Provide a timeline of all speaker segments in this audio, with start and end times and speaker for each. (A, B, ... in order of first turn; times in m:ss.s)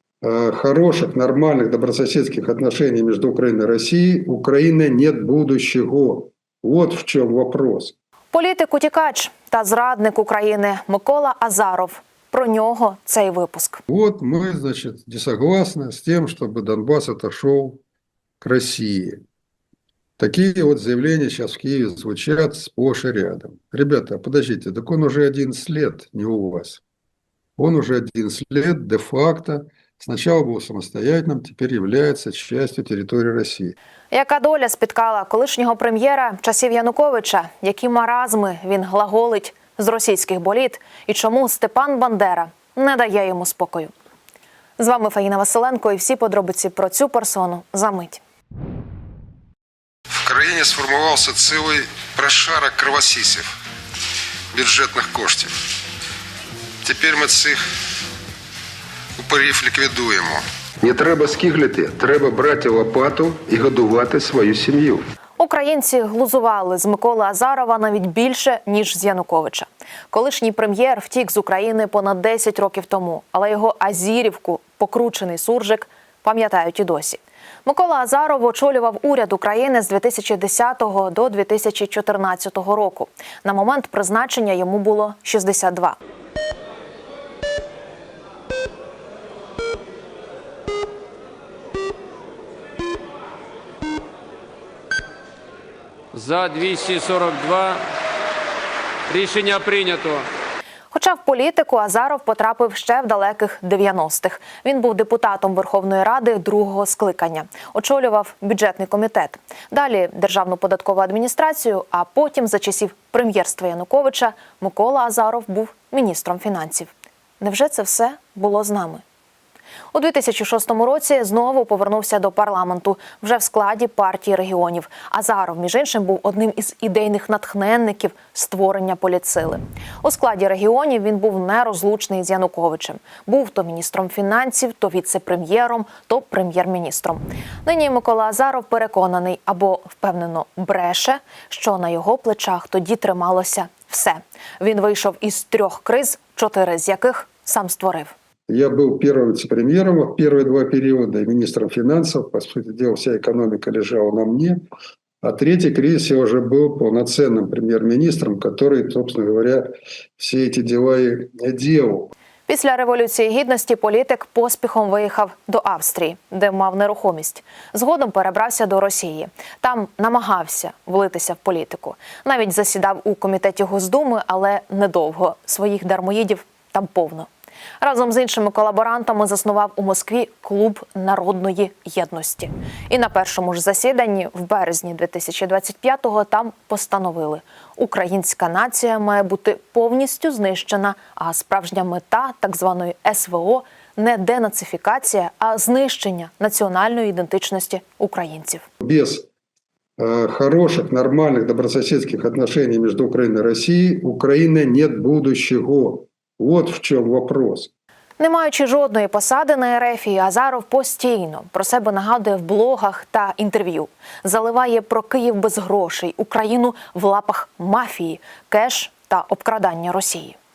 0:00.2-0:07.9 A
0:08.3-0:13.8 B
0:13.9-0:17.8 A
0:18.4-0:19.2 A
0:20.2-0:26.8 A
0:27.6-0:33.8 A
0:34.1-0:43.9 B
0:44.8-0:48.2 B
0:50.2-0:53.5 A
0:54.5-0:55.5 A
0:56.8-0:57.6 A
0:59.2-1:05.1 A
1:05.4-1:26.0 B
1:36.1-1:37.8 C
1:39.1-1:40.3 C
1:40.9-1:59.0 B
1:59.9-2:28.2 B
2:28.5-2:34.6 A
2:35.2-2:42.1 A
2:42.5-2:57.3 B
2:57.8-3:18.6 B
3:18.8-3:19.2 A
3:20.0-3:27.7 A
3:28.2-3:40.4 B